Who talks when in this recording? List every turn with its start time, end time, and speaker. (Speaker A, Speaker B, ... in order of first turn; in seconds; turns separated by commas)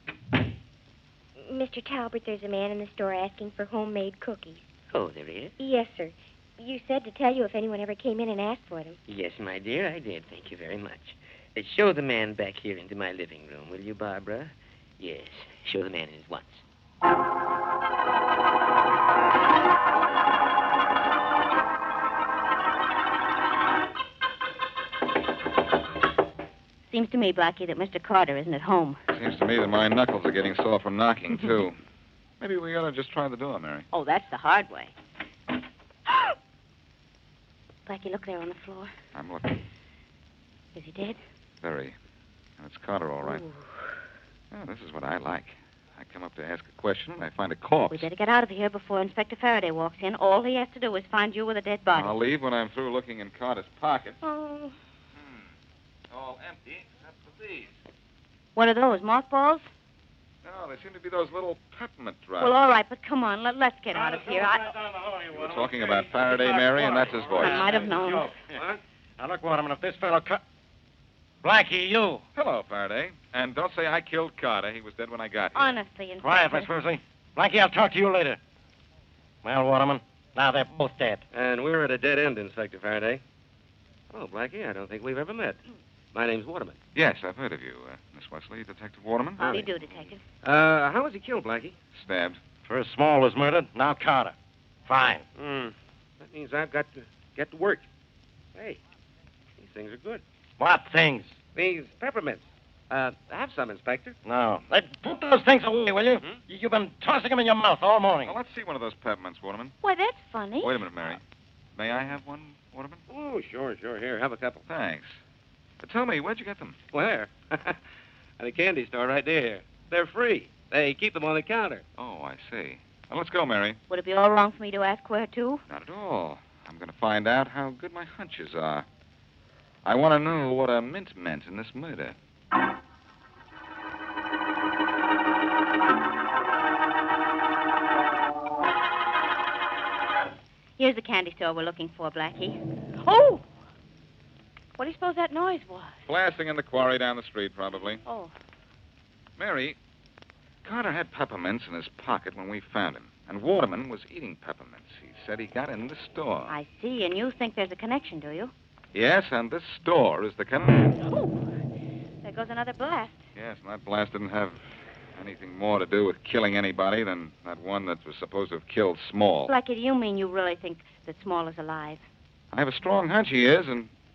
Speaker A: 1.4-4.7, Speaker B: 4.9-5.5, Speaker A: 5.6-9.0, Speaker B: 9.1-16.6, Speaker C: 26.9-29.0, Speaker D: 29.1-31.8, Speaker D: 32.4-33.9, Speaker C: 33.9-34.9, Speaker C: 37.9-38.9, Speaker D: 39.1-39.6, Speaker C: 40.8-41.2, Speaker D: 41.6-42.0, Speaker D: 42.6-43.4, Speaker C: 43.2-43.7, Speaker D: 44.5-48.1, Speaker C: 47.9-52.2, Speaker D: 52.0-54.2, Speaker A: 54.2-54.7, Speaker D: 55.1-55.5, Speaker D: 56.1-57.7, Speaker C: 58.6-59.7, Speaker D: 60.4-62.5, Speaker C: 62.4-64.7, Speaker E: 63.9-68.5, Speaker D: 65.3-67.7, Speaker C: 67.3-68.3, Speaker F: 68.5-68.8, Speaker E: 69.2-70.4, Speaker E: 71.4-72.2, Speaker D: 72.3-75.8, Speaker C: 75.5-76.7, Speaker E: 76.2-78.4, Speaker E: 79.4-81.2, Speaker F: 81.3-83.2, Speaker F: 84.1-85.6, Speaker F: 86.1-86.8, Speaker D: 87.0-89.9, Speaker C: 89.4-90.2, Speaker F: 90.4-91.8, Speaker D: 91.9-92.4, Speaker E: 92.7-94.3, Speaker E: 94.9-95.2, Speaker F: 95.4-97.8, Speaker F: 98.5-98.8, Speaker F: 99.6-100.2, Speaker E: 100.6-101.3, Speaker F: 101.5-104.2, Speaker E: 104.3-108.3, Speaker D: 108.2-109.7, Speaker C: 109.8-110.8, Speaker D: 110.6-111.2, Speaker D: 111.8-113.0, Speaker F: 113.1-114.6, Speaker D: 114.7-115.2, Speaker D: 115.8-116.8, Speaker F: 116.9-117.8, Speaker F: 118.4-121.8, Speaker D: 122.0-123.8, Speaker C: 123.9-125.6, Speaker D: 125.7-128.9, Speaker D: 129.8-132.2, Speaker C: 140.8-143.4, Speaker C: 144.8-146.0, Speaker D: 146.1-148.0, Speaker C: 148.1-148.3, Speaker D: 149.4-149.8, Speaker D: 150.6-156.5, Speaker C: 156.5-158.5, Speaker D: 158.9-161.0, Speaker C: 161.0-161.5, Speaker C: 162.2-163.2, Speaker D: 163.3-164.6, Speaker D: 165.2-169.5, Speaker C: 169.5-172.0, Speaker D: 172.5-173.9